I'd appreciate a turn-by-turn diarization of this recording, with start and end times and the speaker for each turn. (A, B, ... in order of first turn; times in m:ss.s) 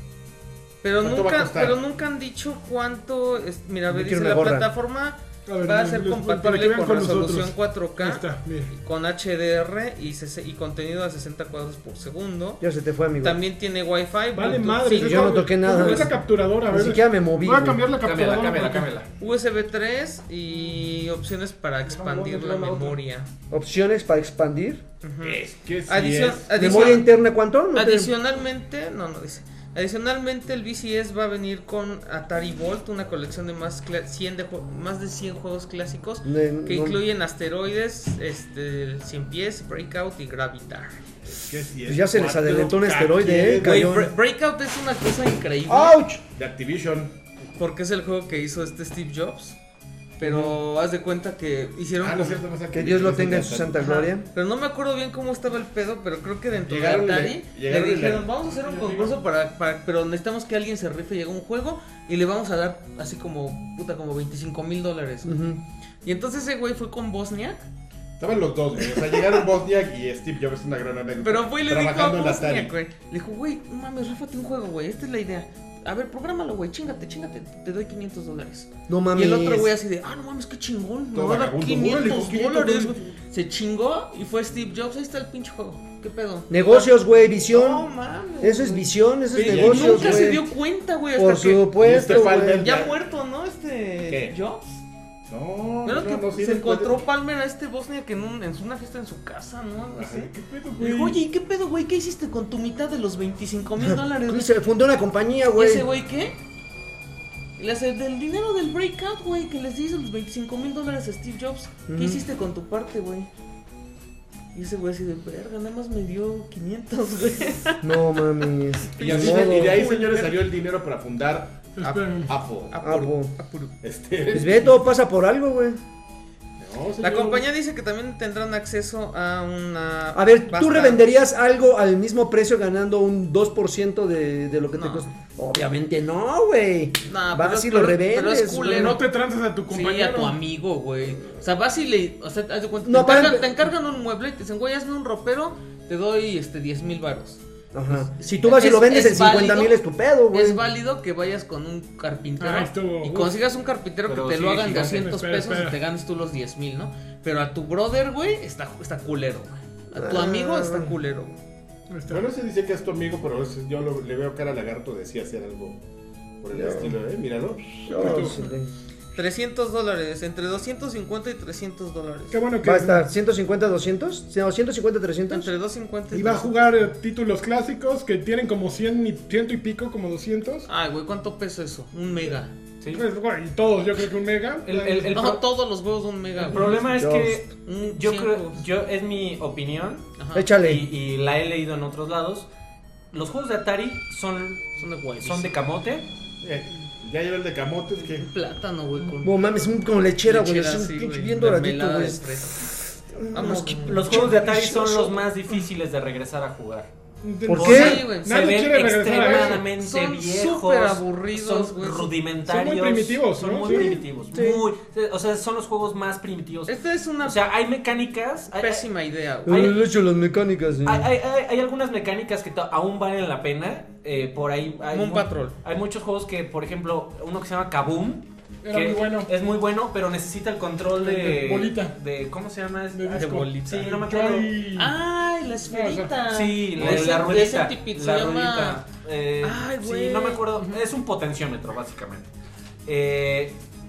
0:00.8-0:12.6 A
0:01.0-0:01.8 B
0:03.9-0:04.7 C
0:05.5-0:08.7 D
0:12.6-0:13.4 C
0:13.2-0:16.0 A
0:14.3-0:18.9 D
0:15.0-0:16.1 C
0:16.7-0:17.8 C
0:18.0-0:19.1 E
0:19.2-0:23.3 A
0:21.9-0:23.0 D
0:23.5-0:24.8 C
0:25.0-0:27.1 A
0:25.2-0:26.9 B
0:26.6-0:28.1 C
0:27.7-0:41.0 A
0:36.2-0:37.0 C
0:41.3-0:44.0 B
0:41.8-0:44.1 C
0:43.6-0:46.0 A
0:45.7-0:46.2 C
0:46.3-0:47.1 B
0:47.6-0:49.6 A
0:50.2-0:52.4 A
0:50.2-0:50.6 C
0:52.0-0:53.8 B
0:52.7-0:54.3 C
0:53.8-1:05.4 A
0:56.7-0:58.3 B
0:58.6-0:59.2 D
1:05.2-1:05.6 C
1:06.0-1:07.6 A
1:08.2-1:12.7 B
1:08.8-1:09.3 A
1:11.2-1:27.0 A
1:18.9-1:19.7 C
1:21.1-1:22.9 B
1:26.5-1:27.9 C
1:27.5-1:34.8 A
1:28.4-1:30.5 C
1:29.4-1:30.4 B
1:31.2-1:32.8 C
1:31.8-1:33.0 B
1:34.1-1:34.4 B
1:35.3-1:37.0 B
1:35.8-1:44.5 A
1:40.0-1:40.3 B
1:40.3-1:41.2 D
1:43.8-1:45.9 C
1:45.6-1:46.4 A
1:47.6-1:53.3 A
1:51.9-1:52.2 C
1:54.5-2:00.4 A
1:57.8-1:59.8 C
1:59.0-2:01.7 B
2:01.8-2:02.3 D
2:01.8-2:03.8 A
2:02.3-2:02.8 B
2:02.8-2:03.3 C
2:03.8-2:04.8 B
2:04.3-2:05.8 C
2:06.6-2:07.4 B
2:07.0-2:11.0 A
2:10.1-2:19.0 C
2:14.8-2:15.1 A
2:17.1-2:19.0 A
2:18.6-2:20.4 D
2:19.7-2:27.4 A
2:22.8-2:23.6 C
2:27.7-2:30.6 C
2:28.4-2:29.8 A
2:30.3-2:41.4 A
2:32.4-2:33.4 D
2:34.1-2:34.9 E
2:34.6-2:35.8 D
2:39.9-2:40.9 C
2:41.9-2:42.2 D
2:42.1-2:45.8 B
2:46.4-2:48.4 B
2:46.5-2:46.9 C
2:47.9-2:48.7 C
2:47.9-2:48.4 D
2:49.2-2:52.4 A
2:52.3-2:53.0 D
2:52.6-2:55.5 C
2:55.3-2:56.5 A
2:56.1-3:00.7 D
3:00.7-3:02.5 A
3:02.9-3:05.3 D
3:04.7-3:05.4 E
3:05.1-3:06.8 A
3:06.5-3:10.1 E
3:06.8-3:07.4 C
3:07.6-3:08.6 A
3:10.2-3:10.5 A
3:10.3-3:10.9 C
3:10.6-3:12.5 E
3:13.1-3:16.1 E
3:14.8-3:15.6 A
3:16.4-3:18.3 B
3:18.0-3:19.6 A
3:19.2-3:25.2 C
3:20.2-3:22.7 A
3:23.3-3:24.2 A
3:23.4-3:26.9 E
3:27.2-3:29.6 D
3:27.5-3:28.0 C
3:27.5-3:38.9 E
3:27.6-3:28.6 A
3:29.1-3:32.1 A
3:32.5-3:34.0 D
3:33.7-3:34.6 C
3:36.7-3:37.4 A
3:38.5-3:39.8 A
3:39.5-3:39.8 E
3:39.5-3:41.1 C
3:40.8-3:54.5 E
3:44.9-3:45.6 A
3:48.6-3:49.3 D
3:51.0-3:52.0 D
3:52.9-3:55.0 D
3:53.1-3:54.0 A
3:54.8-3:58.8 A
3:55.7-3:56.1 D
3:56.3-4:02.3 E
3:59.4-4:00.4 A
4:02.9-4:03.6 E